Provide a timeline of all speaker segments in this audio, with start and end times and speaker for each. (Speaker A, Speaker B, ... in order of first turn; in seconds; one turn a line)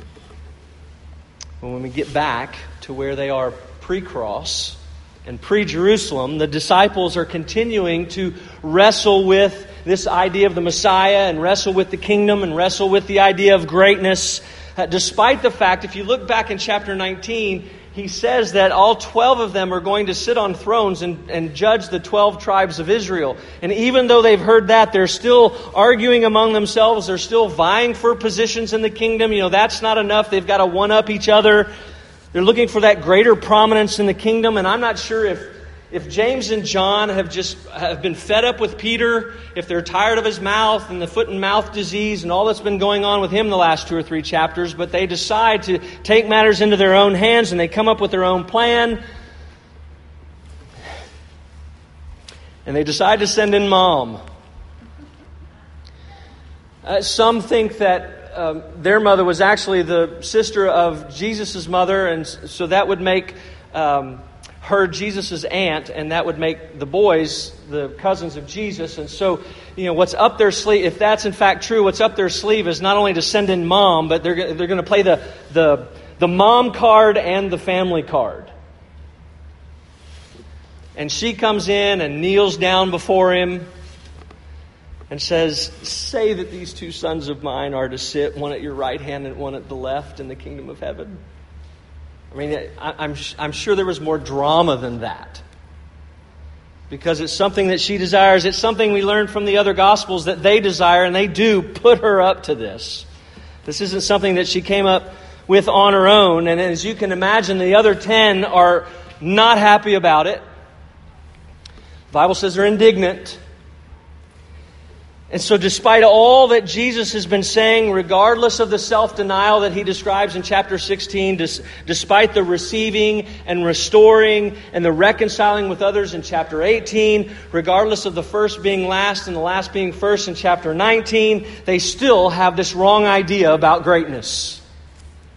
Speaker A: 1.6-31.7
Speaker A: 32.3-49.0
Speaker A: 52.6-54.2
Speaker A: 56.8-78.5
Speaker A: 81.0-83.7
Speaker A: 85.1-91.2
Speaker A: 92.3-95.4
Speaker A: 96.9-103.0
Speaker A: 103.6-110.4
Speaker A: 112.1-113.4
Speaker A: 115.3-134.6